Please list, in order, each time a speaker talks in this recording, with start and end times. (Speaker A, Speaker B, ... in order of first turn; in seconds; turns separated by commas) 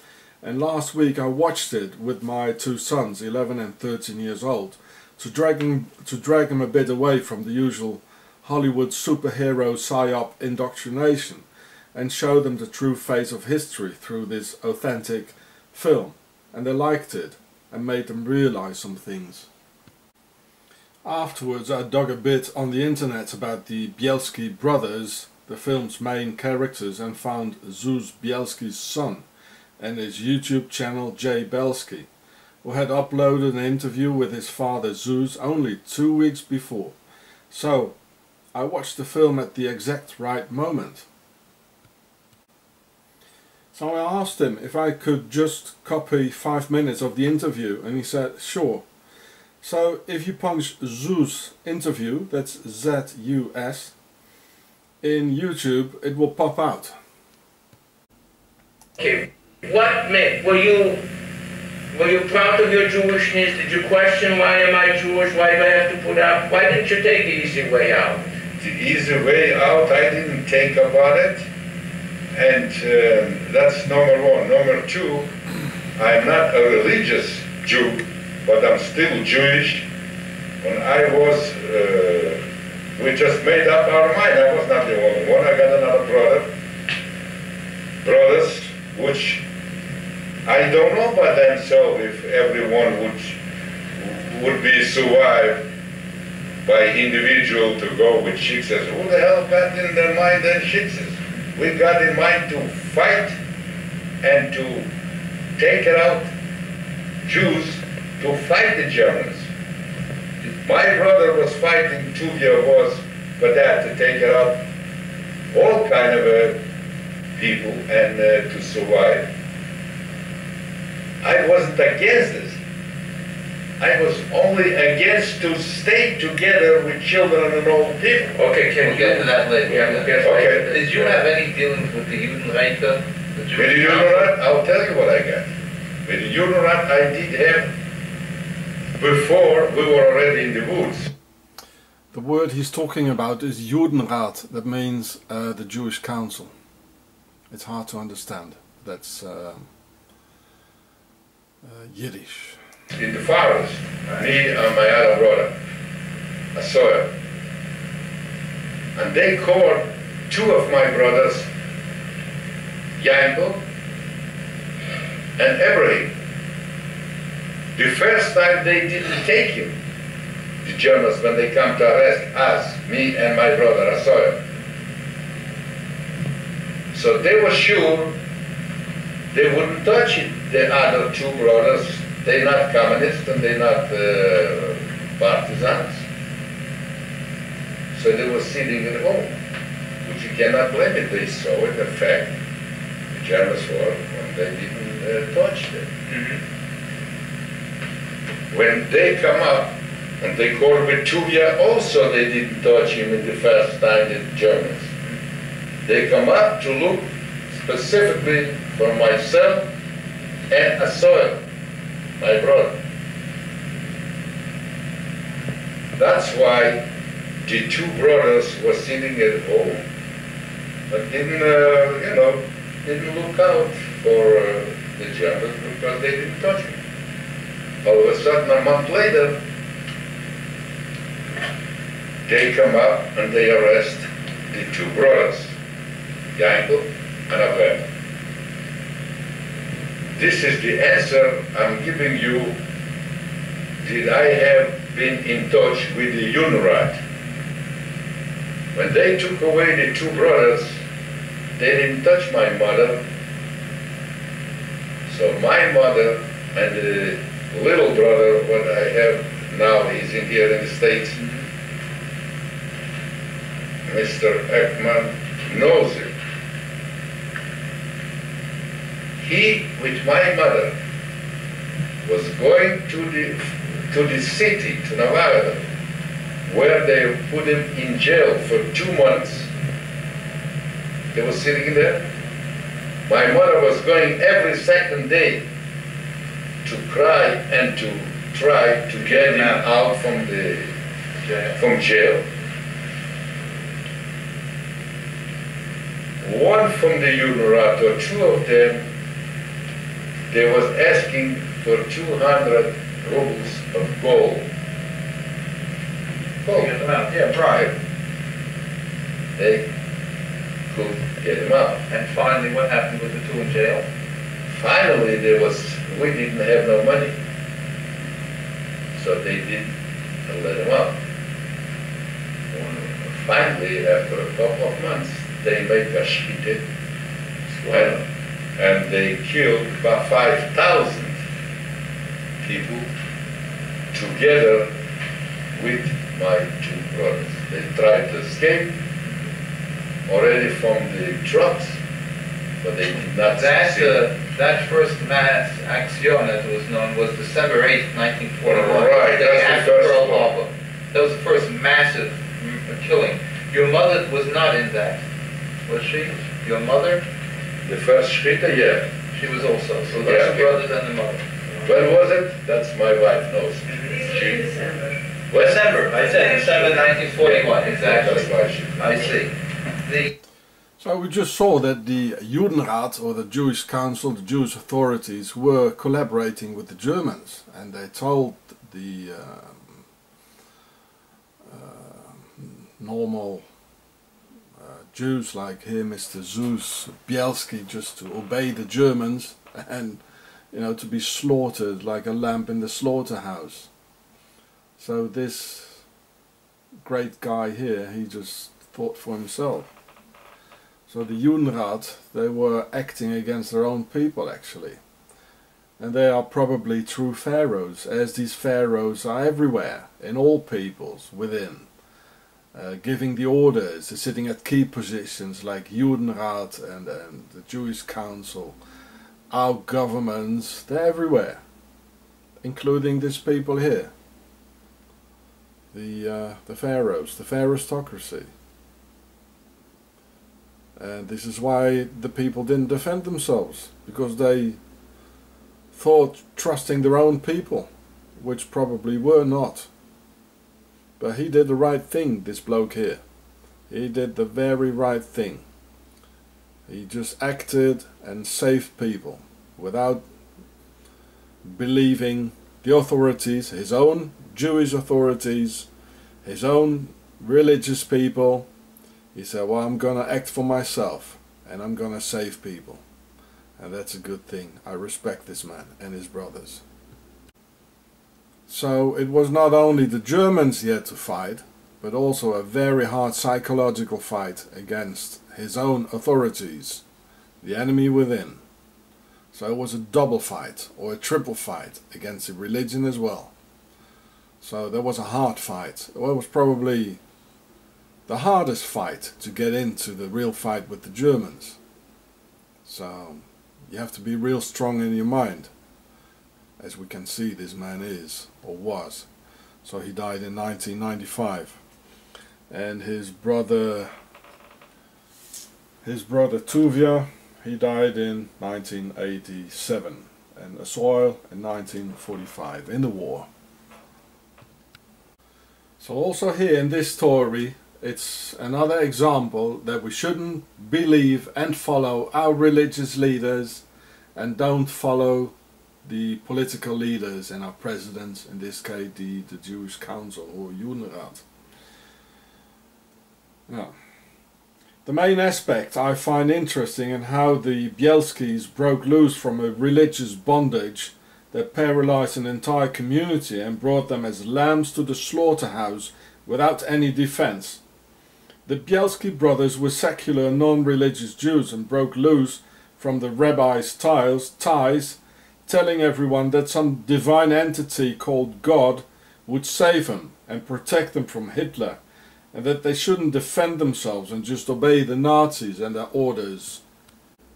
Speaker A: 0.4-19.5, Speaker A: 21.1-29.3, Speaker A: 29.8-32.1, Speaker A: 32.6-37.0, Speaker A: 37.5-38.0, Speaker A: 38.5-41.1, Speaker A: 43.7-48.9, Speaker A: 49.6-53.9, Speaker A: 55.0-57.0, Speaker B: 59.0-61.0, Speaker B: 61.9-68.3, Speaker C: 68.6-71.4, Speaker C: 72.3-75.3, Speaker C: 76.0-79.9, Speaker C: 80.6-82.4, Speaker C: 83.0-86.5, Speaker C: 88.0-89.4, Speaker C: 90.5-93.4, Speaker C: 94.0-95.6, Speaker C: 96.6-103.4, Speaker C: 104.2-104.9, Speaker C: 105.6-106.3, Speaker C: 107.2-109.5, Speaker C: 110.6-114.6, Speaker C: 115.5-116.6, Speaker C: 117.4-119.3, Speaker C: 121.2-122.6, Speaker C: 123.8-128.3, Speaker B: 128.3-131.2, Speaker D: 128.8-134.3, Speaker C: 130.2-131.0, Speaker C: 133.6-135.5, Speaker C: 136.1-137.7, Speaker C: 139.0-141.1, Speaker A: 142.1-146.5, Speaker A: 147.5-149.7, Speaker A: 151.6-152.6, Speaker C: 152.9-155.6, Speaker C: 156.6-157.1, Speaker C: 158.9-161.5, Speaker C: 163.0-163.6, Speaker C: 165.4-166.1, Speaker C: 167.8-169.7, Speaker C: 170.6-174.4, Speaker C: 176.9-178.1, Speaker C: 179.3-186.0, Speaker C: 187.9-189.3, Speaker C: 190.0-192.3, Speaker C: 193.1-195.9, Speaker D: 196.1-196.4, Speaker C: 198.5-204.9, Speaker C: 205.8-209.7, Speaker C: 210.5-211.4, Speaker C: 212.2-212.8, Speaker C: 216.0-216.8, Speaker C: 217.4-219.8, Speaker C: 220.9-226.8, Speaker C: 227.8-229.4, Speaker C: 232.3-235.5, Speaker C: 236.3-237.8, Speaker C: 240.2-242.6, Speaker C: 243.8-247.0, Speaker C: 248.7-250.8, Speaker C: 251.6-253.0, Speaker C: 255.1-261.3, Speaker C: 263.9-266.1, Speaker C: 269.2-270.7, Speaker C: 272.0-275.6, Speaker C: 276.5-279.5, Speaker C: 281.1-282.1, Speaker C: 283.1-285.4, Speaker C: 286.6-290.7, Speaker D: 289.1-289.6, Speaker D: 291.2-291.6, Speaker C: 291.5-292.3, Speaker C: 296.2-298.8, Speaker C: 300.3-304.4, Speaker C: 306.4-306.7, Speaker D: 306.6-307.7, Speaker C: 309.4-309.7, Speaker C: 310.7-311.8, Speaker D: 311.9-313.9, Speaker C: 314.5-317.1, Speaker C: 319.0-319.7, Speaker C: 320.3-320.9, Speaker C: 322.5-326.6, Speaker B: 327.6-327.9, Speaker C: 327.7-328.0, Speaker C: 328.6-331.2, Speaker C: 332.4-332.9, Speaker C: 333.9-334.7, Speaker C: 335.5-338.7, Speaker C: 340.1-341.8, Speaker C: 342.6-344.0, Speaker D: 343.4-355.0, Speaker C: 348.4-350.3, Speaker D: 355.7-357.0, Speaker C: 357.6-358.9, Speaker D: 359.1-361.7, Speaker C: 360.0-360.6, Speaker C: 361.6-364.6, Speaker C: 365.3-369.2, Speaker D: 365.6-369.3, Speaker D: 369.8-370.1, Speaker A: 370.8-379.8, Speaker A: 381.4-383.4, Speaker A: 384.6-393.7, Speaker A: 394.8-395.8, Speaker A: 396.8-399.7, Speaker A: 400.9-404.8, Speaker A: 405.8-411.7, Speaker A: 412.5-418.6, Speaker A: 419.3-421.4, Speaker A: 422.4-423.9, Speaker A: 425.7-428.3, Speaker A: 430.8-434.6, Speaker A: 435.7-439.7, Speaker A: 441.0-443.0, Speaker A: 443.7-445.4, Speaker A: 446.7-450.1, Speaker A: 451.4-455.7, Speaker A: 456.2-458.5, Speaker A: 459.1-462.8, Speaker A: 463.6-466.6, Speaker A: 468.5-476.8, Speaker A: 477.4-478.4, Speaker A: 479.3-483.3, Speaker A: 484.4-487.0, Speaker A: 488.1-491.6, Speaker A: 492.6-495.5, Speaker A: 496.6-499.1, Speaker A: 499.6-501.6, Speaker A: 502.5-503.9, Speaker A: 505.8-513.3, Speaker A: 515.8-523.6, Speaker A: 524.1-525.3, Speaker A: 525.9-531.2, Speaker A: 533.5-533.7, Speaker A: 534.9-547.6, Speaker A: 548.5-561.8, Speaker A: 562.3-566.6